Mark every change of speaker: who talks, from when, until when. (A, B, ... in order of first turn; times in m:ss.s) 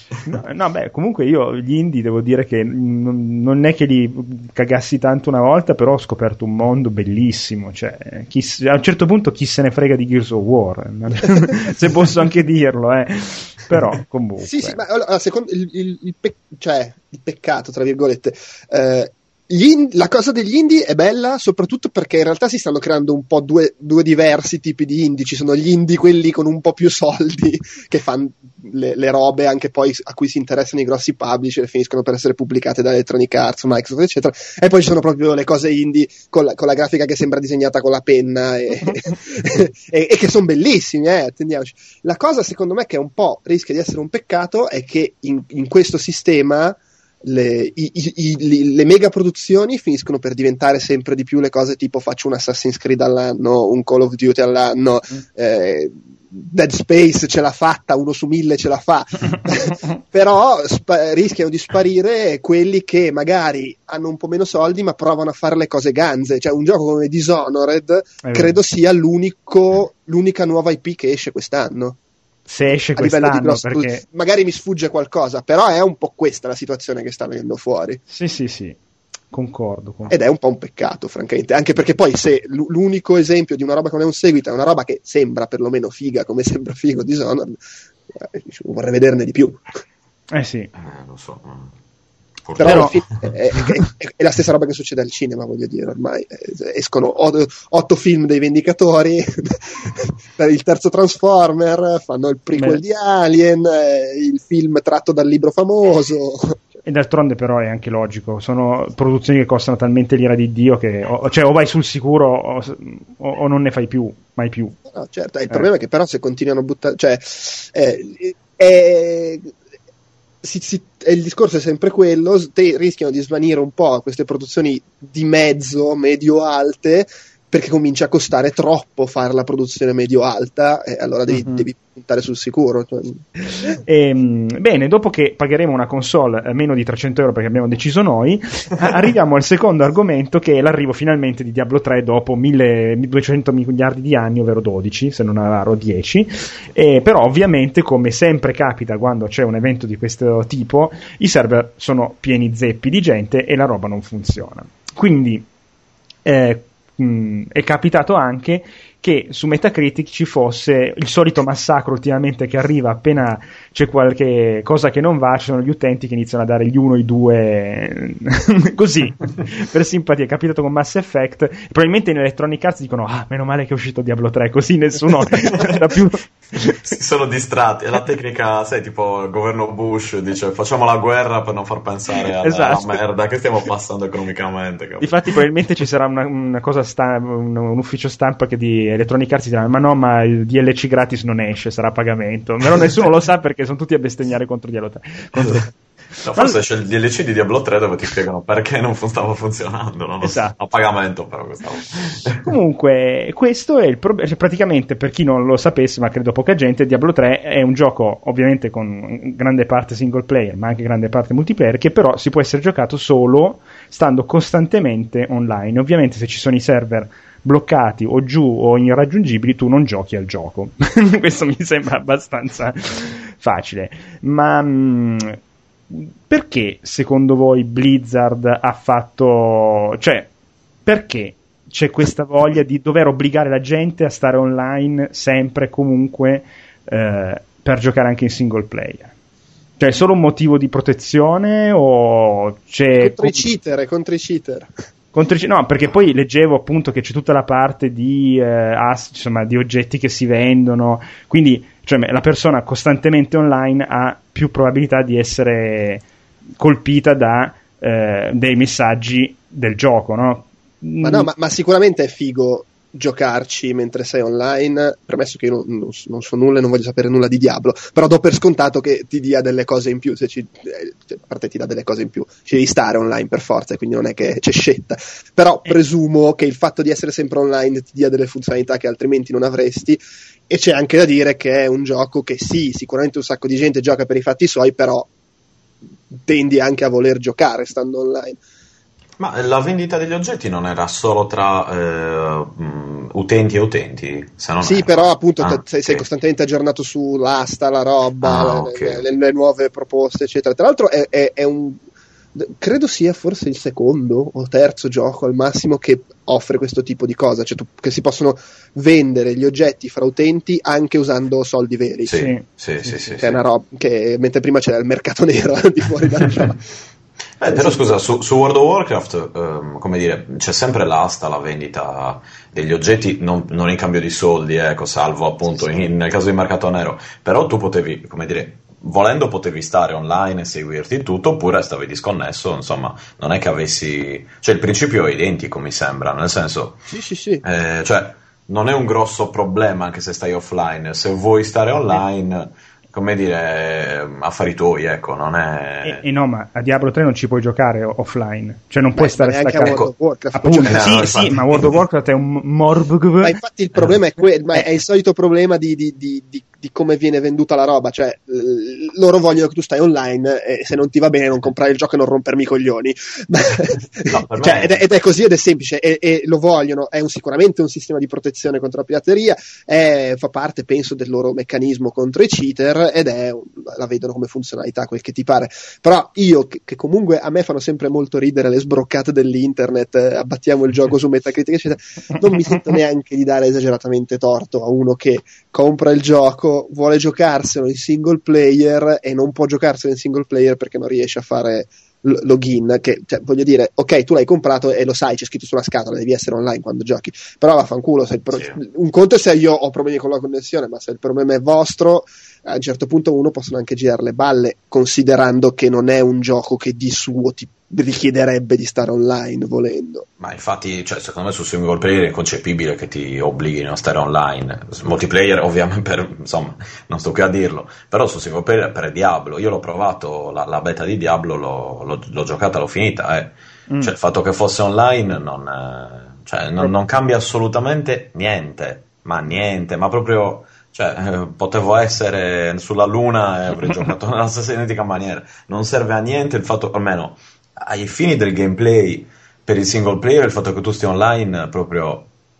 0:00.3-0:14.8 A
0:14.4-1:12.0 B
1:08.2-1:08.5 A
1:12.5-1:14.0 A
1:13.0-1:18.0 B
1:18.1-1:18.8 A
1:19.3-1:20.2 A
1:20.1-1:27.6 B
1:28.1-1:29.6 B
1:30.3-1:30.7 A
1:30.8-1:31.7 C
1:32.4-1:33.3 C
1:32.6-1:46.6 B
1:32.6-1:32.9 A
1:42.6-1:42.8 A
1:46.8-1:54.8 A
1:54.9-1:59.5 B
2:00.4-2:13.8 B
2:11.3-2:11.6 A
2:13.6-2:35.5 A
2:36.2-2:56.9 A
2:55.3-2:55.9 C
2:56.8-3:05.2 C
3:02.4-3:03.0 A
3:05.0-3:15.7 A
3:15.4-3:22.6 C
3:20.2-3:20.6 A
3:22.4-3:45.4 A
3:45.9-3:50.3 A
3:50.9-3:59.1 A
3:59.8-4:03.4 A
4:03.0-4:04.7 B
4:05.1-4:16.0 A
4:16.6-4:21.3 A
4:21.0-4:45.1 B
4:46.1-4:48.4 B
4:49.2-4:56.0 C
4:54.6-5:01.8 B
4:58.2-4:59.0 C
5:02.4-5:12.1 B
5:12.1-5:13.4 C
5:12.1-5:12.4 A
5:13.0-5:16.6 B
5:17.4-5:36.8 C
5:17.5-5:17.9 B
5:36.9-5:37.4 B
5:37.4-5:46.0 C
5:45.8-5:49.8 A
5:49.0-5:51.1 B
5:49.6-5:49.9 C
5:50.4-5:53.4 A
5:50.6-5:51.7 C
5:53.2-6:50.1 B
6:04.0-6:04.9 C
6:38.3-6:38.6 C
6:50.2-7:22.1 C